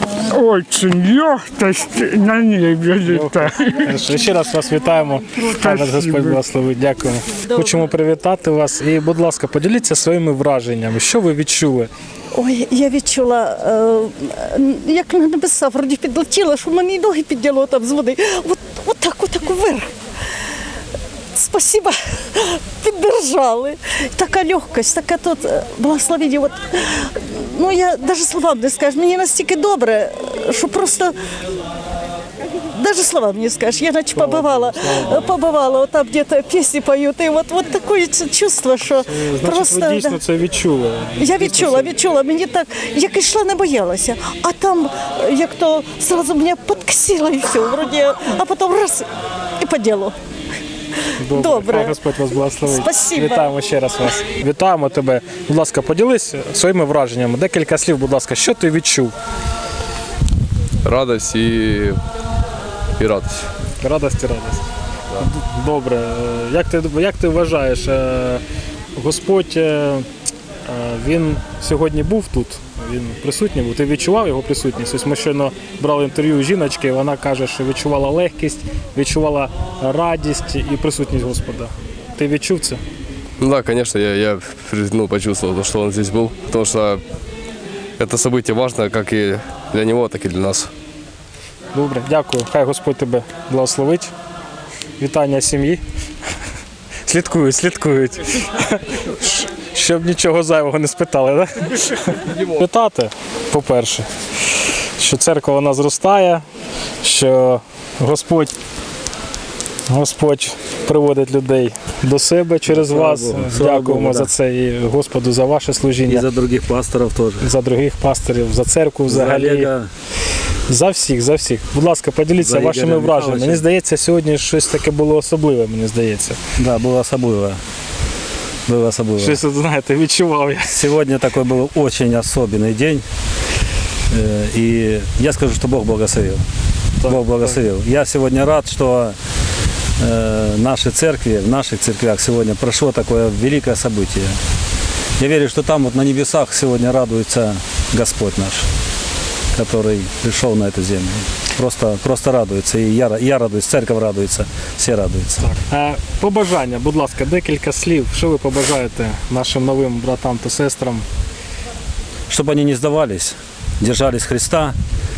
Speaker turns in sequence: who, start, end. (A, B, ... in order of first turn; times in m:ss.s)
0:00.3-0:04.1 A
0:03.0-0:11.9 B
0:05.5-0:06.4 A
0:12.3-0:19.9 C
0:21.4-0:31.2 C
0:32.7-0:40.2 C
0:34.1-0:35.3 B
0:38.9-0:42.0 B
0:41.2-0:49.1 C
0:49.6-0:50.2 C
0:51.2-0:59.1 B
0:51.3-0:52.0 C
0:52.6-0:53.5 C
1:00.8-1:02.0 D
1:03.0-1:03.5 D
1:03.8-1:04.6 B
1:05.2-1:08.4 B
1:08.9-1:10.1 B
1:10.7-1:22.8 B
1:23.4-1:27.0 D
1:28.0-1:30.7 D
1:31.7-1:34.1 B
1:35.0-1:35.8 B
1:37.1-1:44.1 B
1:45.0-1:46.4 B
1:47.0-1:48.6 B
1:49.9-1:56.3 B
1:52.7-1:54.3 E
1:56.0-1:57.5 E
1:57.4-1:59.7 B
1:59.1-1:59.9 E
2:00.7-2:06.4 B
2:02.4-2:03.6 E
2:06.6-2:07.6 E
2:08.7-2:09.4 E
2:09.2-2:10.9 B
2:10.7-2:13.0 E
2:14.1-2:16.4 E
2:17.0-2:17.6 B
2:17.0-2:19.2 E
2:20.0-2:24.4 E
2:25.2-2:28.7 E
2:29.5-2:35.4 E
2:35.4-2:41.1 B
2:42.3-2:44.8 E